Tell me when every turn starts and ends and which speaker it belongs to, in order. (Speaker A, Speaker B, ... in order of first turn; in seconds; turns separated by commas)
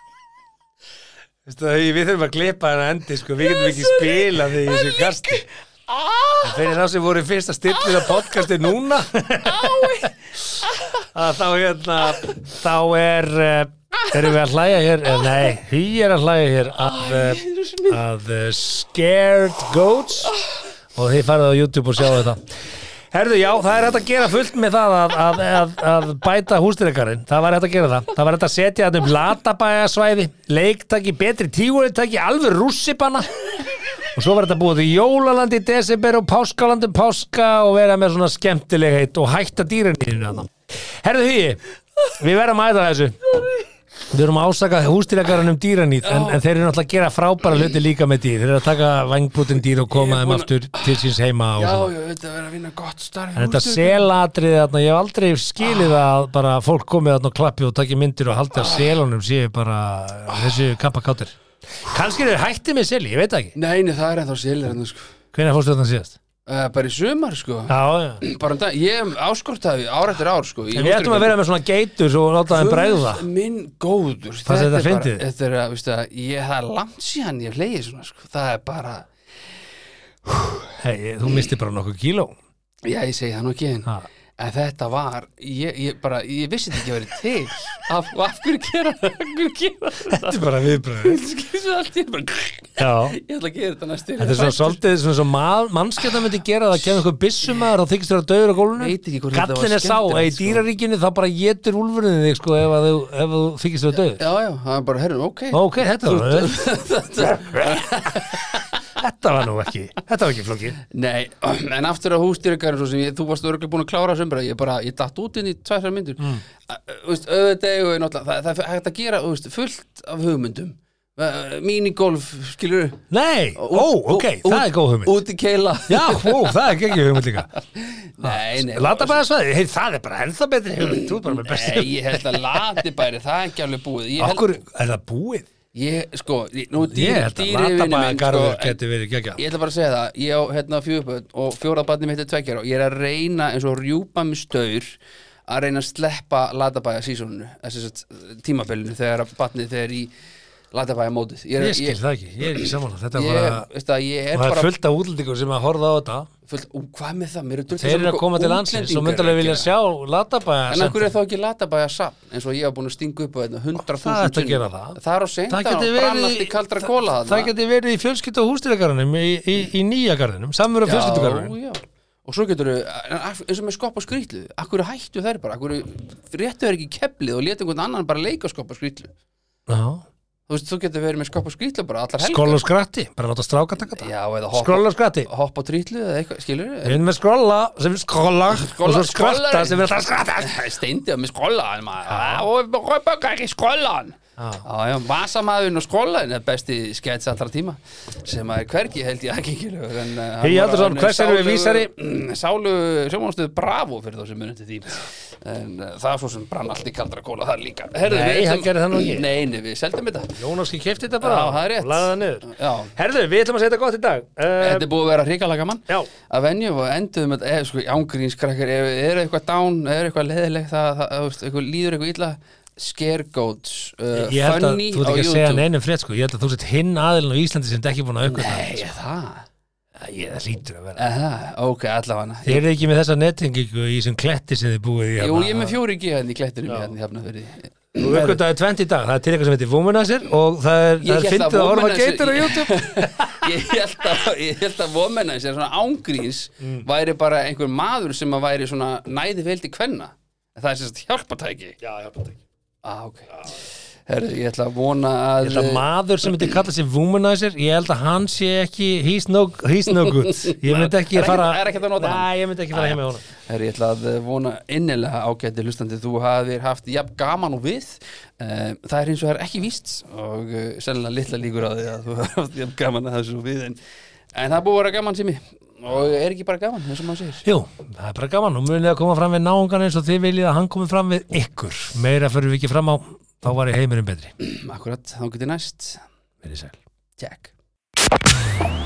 Speaker A: 1.4-5.4, Speaker B: 3.4-6.7, Speaker A: 6.4-10.1, Speaker B: 7.9-8.2, Speaker B: 9.4-11.1, Speaker A: 11.0-20.3, Speaker B: 14.0-14.3, Speaker B: 15.2-15.4, Speaker B: 16.8-18.0, Speaker B: 20.2-20.6, Speaker A: 20.9-22.4, Speaker A: 23.1-33.4, Speaker A: 34.1-43.2, Speaker B: 43.4-43.6, Speaker A: 44.1-51.9, Speaker B: 46.0-46.4, Speaker B: 49.9-51.0, Speaker B: 51.6-54.1, Speaker A: 53.4-63.5, Speaker B: 58.5-59.0, Speaker B: 60.3-60.6, Speaker B: 63.5-65.1, Speaker A: 65.3-66.2, Speaker B: 66.5-71.3, Speaker A: 67.7-68.2, Speaker A: 70.7-73.2, Speaker B: 72.5-79.1, Speaker A: 74.5-75.2, Speaker B: 80.3-80.7, Speaker A: 80.8-82.3, Speaker B: 82.8-94.8, Speaker A: 90.1-91.2, Speaker A: 92.8-93.2, Speaker A: 94.2-104.2, Speaker B: 98.8-100.6, Speaker B: 104.2-108.8, Speaker A: 105.5-106.5, Speaker A: 107.2-108.4, Speaker A: 109.0-110.8, Speaker B: 110.8-123.0, Speaker A: 123.1-125.1, Speaker B: 123.5-127.0, Speaker A: 125.9-127.5, Speaker B: 127.6-129.2, Speaker A: 128.2-132.8, Speaker B: 130.9-134.5, Speaker A: 134.2-135.5, Speaker B: 135.7-138.8, Speaker A: 136.8-139.4, Speaker B: 139.3-144.9, Speaker B: 145.5-150.1, Speaker B: 150.7-154.7, Speaker A: 151.6-153.7, Speaker A: 154.3-156.3, Speaker B: 156.4-159.7, Speaker A: 157.7-161.1, Speaker B: 160.7-167.5, Speaker A: 163.8-165.0, Speaker A: 165.5-171.6, Speaker B: 170.8-179.1, Speaker A: 179.7-180.0, Speaker B: 180.5-182.6, Speaker A: 182.2-185.3, Speaker B: 183.9-187.0, Speaker A: 186.8-190.6, Speaker B: 188.5-210.4, Speaker A: 192.1-192.5, Speaker A: 194.4-194.6, Speaker A: 200.4-201.9, Speaker A: 208.0-209.3, Speaker A: 210.4-214.9, Speaker B: 211.2-212.9, Speaker B: 214.6-225.6, Speaker A: 224.1-228.9, Speaker B: 228.2-229.5, Speaker A: 229.9-231.0, Speaker B: 231.0-232.6, Speaker A: 232.4-235.8, Speaker B: 235.2-238.4, Speaker A: 238.0-243.6, Speaker B: 241.0-251.8, Speaker A: 246.6-246.8, Speaker A: 251.8-252.4, Speaker B: 252.8-255.8, Speaker A: 255.4-263.2, Speaker B: 259.9-273.8, Speaker B: 274.3-277.4, Speaker A: 277.4-284.3, Speaker B: 284.4-286.0, Speaker A: 286.4-286.8, Speaker B: 287.2-287.5